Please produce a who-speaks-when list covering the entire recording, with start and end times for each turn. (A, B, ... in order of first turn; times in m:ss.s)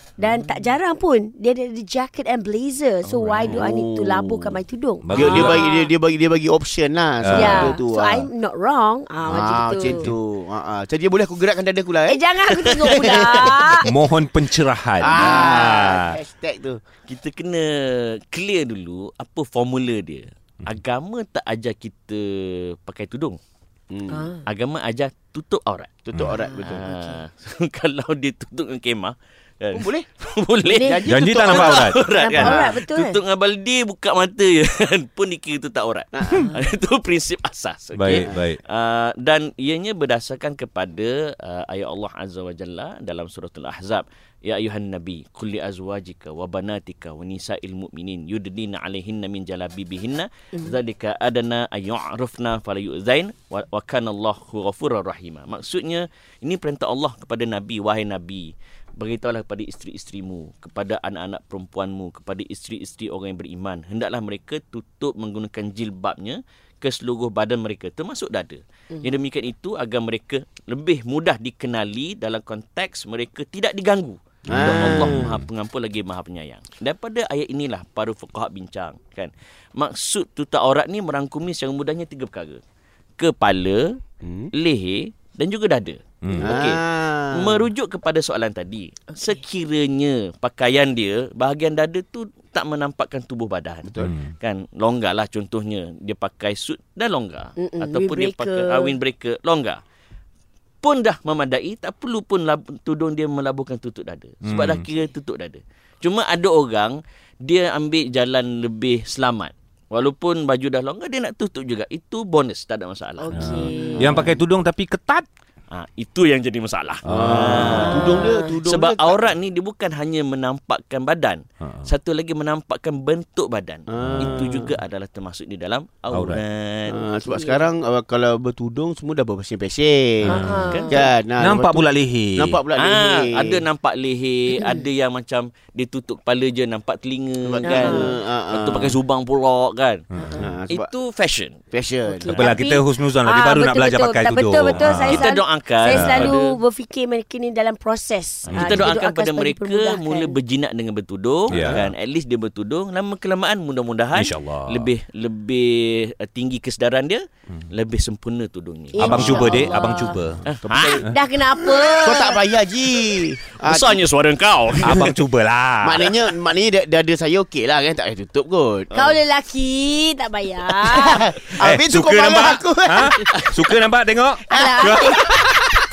0:00.2-0:05.9 A
0:03.2-0:03.6 B
0:03.4-0:04.6 C
0:05.0-0:05.7 B
0:05.1-0:08.3 C
0:07.2-0:07.8 B
0:07.3-0:10.0 A
0:09.2-0:10.1 B
0:09.3-0:13.8 C
0:12.1-0:13.9 A
0:12.6-0:13.6 D
0:13.8-0:16.2 B
0:15.0-0:16.8 C
0:15.1-0:15.7 A
0:17.1-0:23.4 D
0:23.9-0:24.3 C
0:24.1-0:24.4 A
0:24.4-1:22.6 D
0:26.1-0:26.9 C
0:26.3-0:27.2 A
0:29.7-0:30.1 C
0:30.7-0:33.2 A
0:30.8-0:31.7 C
0:31.1-0:32.0 B
0:36.1-0:36.6 C
0:37.9-0:38.6 B
1:14.5-1:15.3 C
1:14.5-1:15.4 B
1:23.2-1:24.0 D
1:24.2-1:24.5 C
1:24.5-1:39.8 D
1:26.2-1:26.6 B
1:26.3-1:27.7 C
1:33.8-1:34.1 C
1:34.0-1:34.3 B
1:37.6-1:39.0 A
1:40.8-1:54.4 D
1:44.4-1:44.8 B
1:53.2-1:54.3 A
1:53.3-1:55.2 B
1:55.7-2:07.0 D
1:57.1-1:58.0 B
1:57.1-1:59.3 C
1:57.7-1:58.5 A
2:01.6-2:01.9 B
2:03.9-2:04.7 C
2:04.0-2:04.4 B
2:06.1-2:06.4 B
2:06.9-2:13.7 C
2:07.3-2:07.7 A
2:10.3-2:11.1 A
2:10.3-2:10.7 B
2:10.6-2:11.0 D
2:11.4-2:12.6 B
2:12.8-2:20.0 D
2:14.6-2:14.8 A
2:17.4-2:19.0 C
2:17.6-2:18.1 A
2:20.2-2:20.5 B
2:20.2-2:20.5 A
2:20.4-2:20.9 C
2:20.7-2:21.6 D
2:21.7-2:22.3 C
2:22.1-2:30.4 A
2:22.3-2:25.2 B
2:25.0-2:26.5 D
2:25.9-2:26.3 B
2:28.5-2:28.9 B
2:28.5-2:39.8 D
2:31.5-2:31.9 B
2:34.1-2:34.9 B
2:38.9-2:40.2 A
2:38.9-2:40.5 B
2:39.2-2:39.7 C
2:40.5-2:41.0 D
2:40.5-2:44.1 C
2:41.0-2:42.4 A
2:43.6-2:45.2 D
2:44.7-2:45.2 C
2:44.8-2:46.1 B
2:45.8-2:48.9 C
2:48.9-2:51.3 A
2:50.7-2:53.8 C
2:51.6-2:55.2 B
2:54.5-2:55.2 A
2:54.5-2:55.4 C